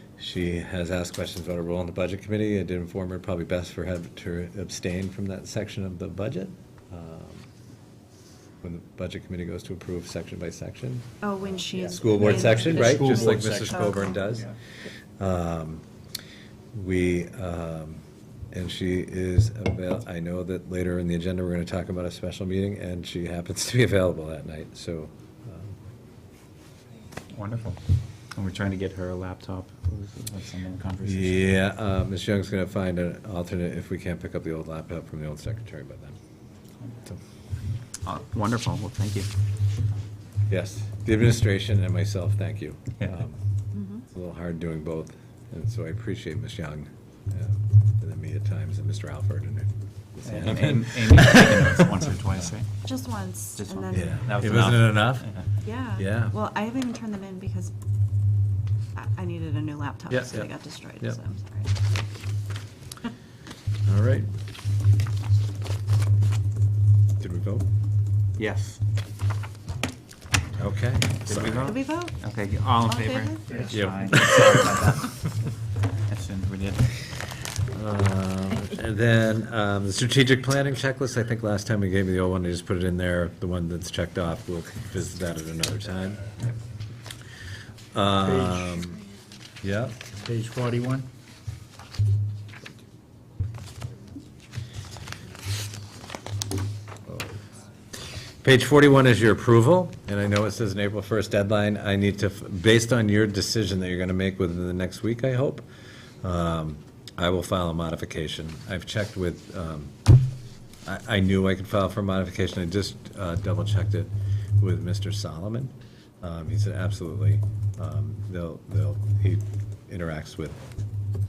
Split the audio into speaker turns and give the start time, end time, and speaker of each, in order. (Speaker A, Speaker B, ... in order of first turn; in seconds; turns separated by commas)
Speaker A: 0.2-7.5, Speaker A: 8.6-11.2, Speaker B: 11.2-14.2, Speaker C: 11.6-14.5, Speaker A: 11.7-14.6, Speaker A: 15.2-15.8, Speaker A: 16.7-25.8, Speaker D: 27.3-27.8, Speaker D: 28.3-31.6, Speaker A: 31.0-36.1, Speaker D: 38.0-39.3, Speaker A: 40.5-43.4, Speaker B: 43.7-44.0, Speaker A: 44.0-52.2, Speaker D: 50.2-52.7, Speaker B: 52.8-54.3, Speaker D: 53.6-55.5, Speaker A: 53.9-55.3, Speaker B: 55.6-57.7, Speaker A: 55.9-56.4, Speaker B: 58.9-61.7, Speaker A: 60.1-61.2, Speaker A: 63.8-64.3, Speaker A: 67.2-67.7, Speaker D: 68.4-68.8, Speaker A: 70.5-71.7, Speaker D: 71.2-75.3, Speaker B: 71.6-72.2, Speaker B: 72.8-73.7, Speaker C: 73.5-73.8, Speaker A: 73.7-74.6, Speaker D: 76.0-76.9, Speaker A: 77.7-86.3, Speaker A: 87.9-89.0, Speaker C: 88.2-88.8, Speaker A: 89.6-90.0, Speaker C: 90.2-91.1, Speaker A: 98.4-105.6, Speaker A: 106.2-109.9, Speaker A: 110.8-120.6